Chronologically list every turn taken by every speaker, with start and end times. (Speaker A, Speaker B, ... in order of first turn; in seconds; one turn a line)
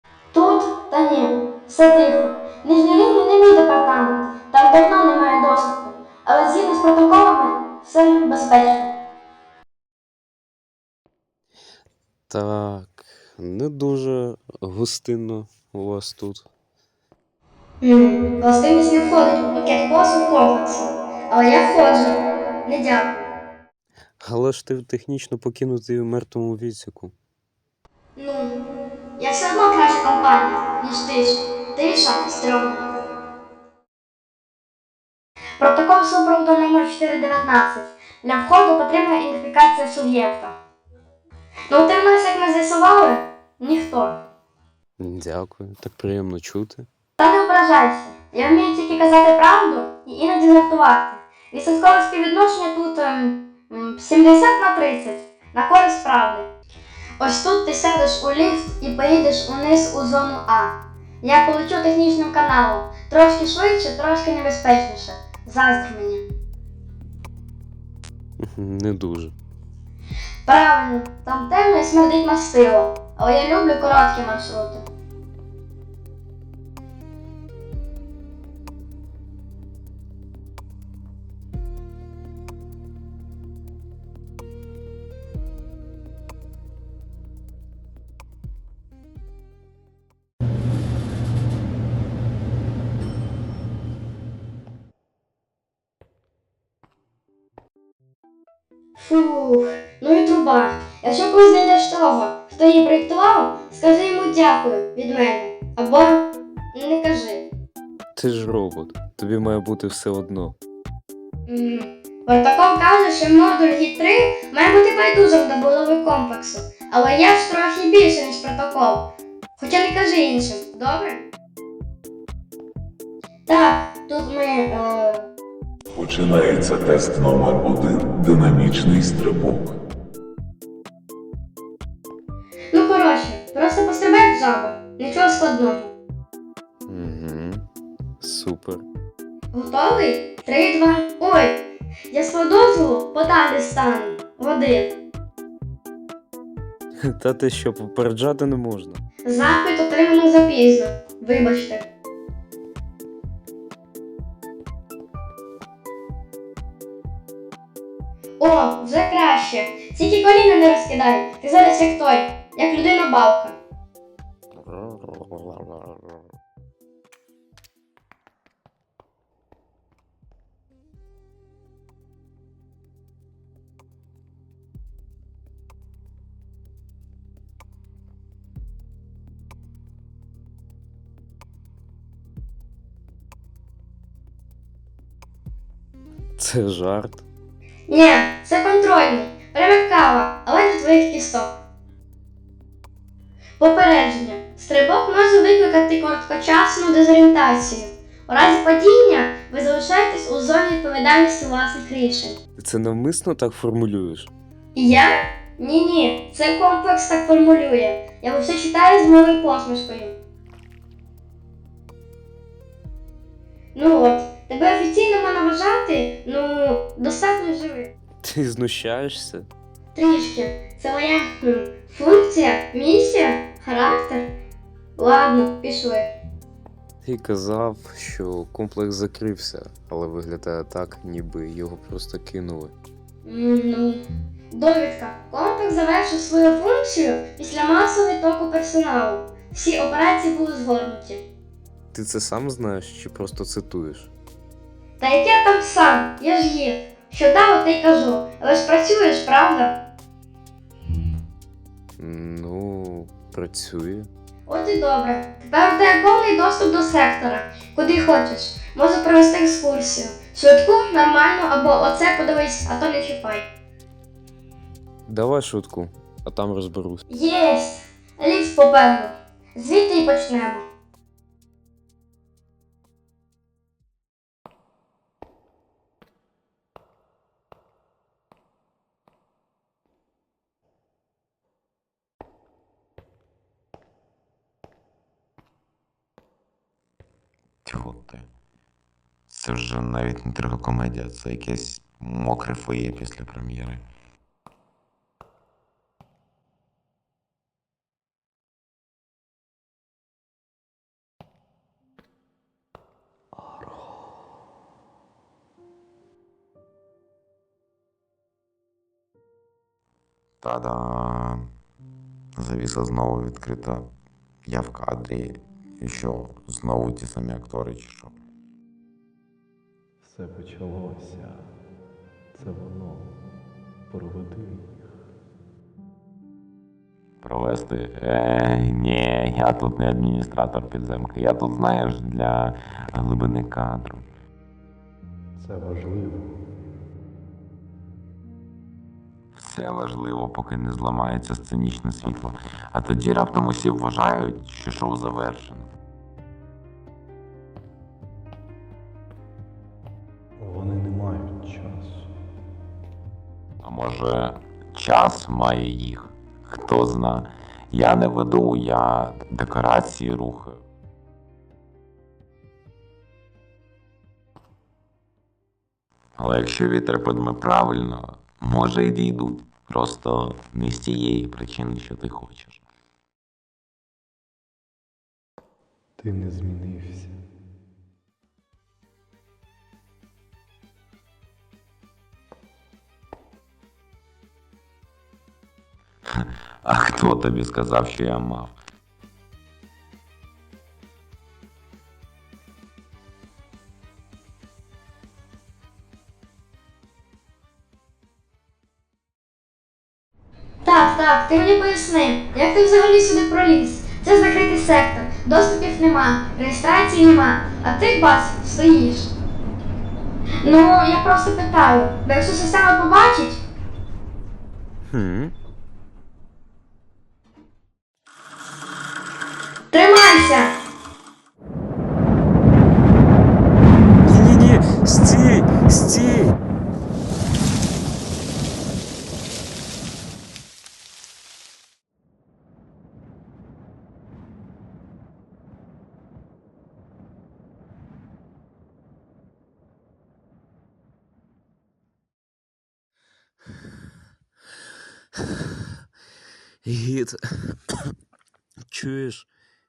Speaker A: 0.3-8.9
Speaker B: 12.3-16.5
Speaker A: 17.8-23.2
Speaker B: 24.2-27.1
Speaker A: 28.1-28.6
Speaker A: 29.2-32.8
Speaker A: 35.6-40.6
Speaker A: 41.7-44.2
Speaker B: 45.0-46.9
Speaker A: 47.2-56.5
Speaker A: 57.2-66.2
Speaker B: 68.4-69.3
Speaker A: 70.5-74.8
Speaker A: 98.9-107.5
Speaker B: 108.2-110.6
Speaker A: 111.5-119.1
Speaker A: 119.6-121.2
Speaker A: 123.5-125.3
Speaker C: 125.9-129.8
Speaker A: 132.7-135.9
Speaker B: 136.9-137.6
Speaker B: 138.2-138.8
Speaker A: 139.5-144.9
Speaker B: 147.1-149.0
Speaker A: 149.2-151.9
Speaker A: 158.4-163.6
Speaker B: 164.6-166.2
Speaker B: 186.4-187.2
Speaker A: 187.9-191.5
Speaker A: 193.6-202.4
Speaker B: 202.6-204.3
Speaker A: 204.7-210.1
Speaker A: 213.7-217.9
Speaker B: 218.2-219.5
Speaker A: 219.9-224.3
Speaker A: 225.0-226.1
Speaker B: 227.0-232.7
Speaker A: 233.2-241.2
Speaker B: 241.9-244.1
Speaker A: 245.0-249.8
Speaker B: 252.0-254.1
Speaker A: 254.5-263.5
Speaker B: 265.1-267.0
Speaker A: 267.1-270.6
Speaker D: 287.6-288.2
Speaker D: 289.3-293.8
Speaker D: 310.4-311.4
Speaker D: 312.4-313.9
Speaker D: 314.4-318.1
Speaker E: 320.0-321.5
Speaker E: 322.3-323.1
Speaker E: 323.9-324.7
Speaker D: 327.2-334.0
Speaker E: 335.4-336.3
Speaker D: 339.4-345.6
Speaker E: 350.4-352.1
Speaker D: 353.6-360.6
Speaker D: 366.2-372.6
Speaker E: 376.0-377.1
Speaker D: 386.1-388.5
Speaker A: 400.6-409.1
Speaker A: 410.4-413.4
Speaker B: 414.9-415.3
Speaker A: 419.7-420.6
Speaker B: 424.0-426.3
Speaker B: 446.6-447.9
Speaker B: 448.7-449.3